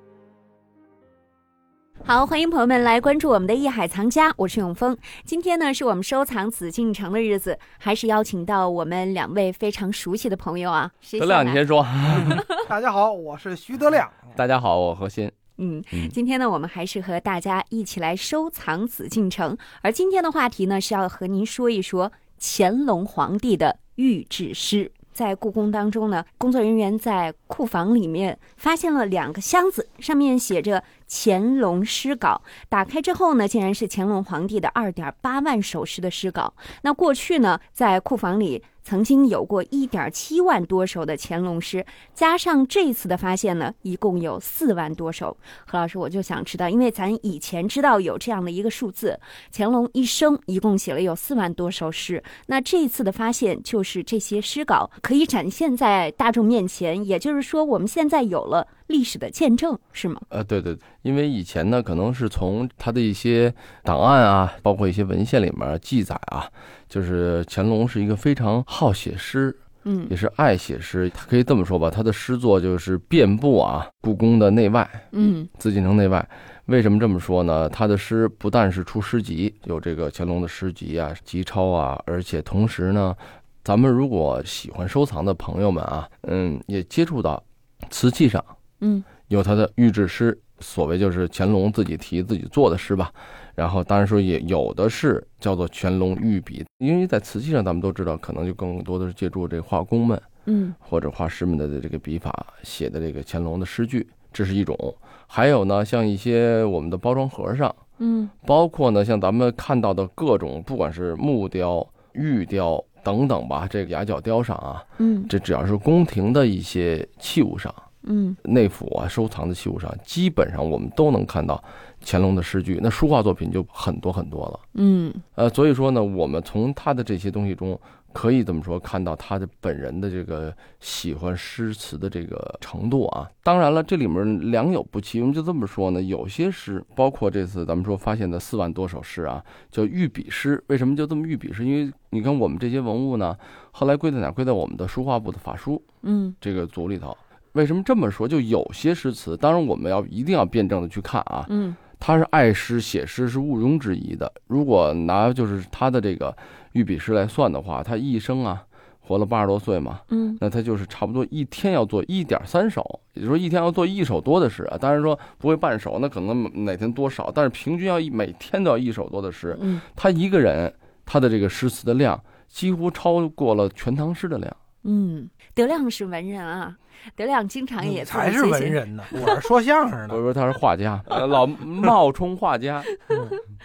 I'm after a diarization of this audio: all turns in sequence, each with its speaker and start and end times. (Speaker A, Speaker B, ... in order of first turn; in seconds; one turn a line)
Speaker A: 2.0-11.6
Speaker B: 11.2-12.4
Speaker C: 12.7-14.3
Speaker B: 14.3-15.3
Speaker A: 15.6-60.2
Speaker B: 60.3-88.5
Speaker A: 69.8-70.1
Speaker A: 75.1-75.5
Speaker A: 88.8-89.0
Speaker B: 89.3-100.2
Speaker A: 100.5-100.7
Speaker B: 100.8-107.8
Speaker A: 108.0-108.3
Speaker B: 108.4-117.8
Speaker A: 115.0-115.3
Speaker A: 118.0-118.4
Speaker B: 118.4-124.6
Speaker A: 124.7-125.2
Speaker B: 125.3-145.8
Speaker A: 146.0-146.3
Speaker B: 146.4-174.6
Speaker A: 151.5-151.8
Speaker A: 160.1-160.4
Speaker A: 169.5-169.8
Speaker A: 174.8-179.3
Speaker C: 177.8-180.2
Speaker B: 180.1-182.9
Speaker C: 183.1-183.4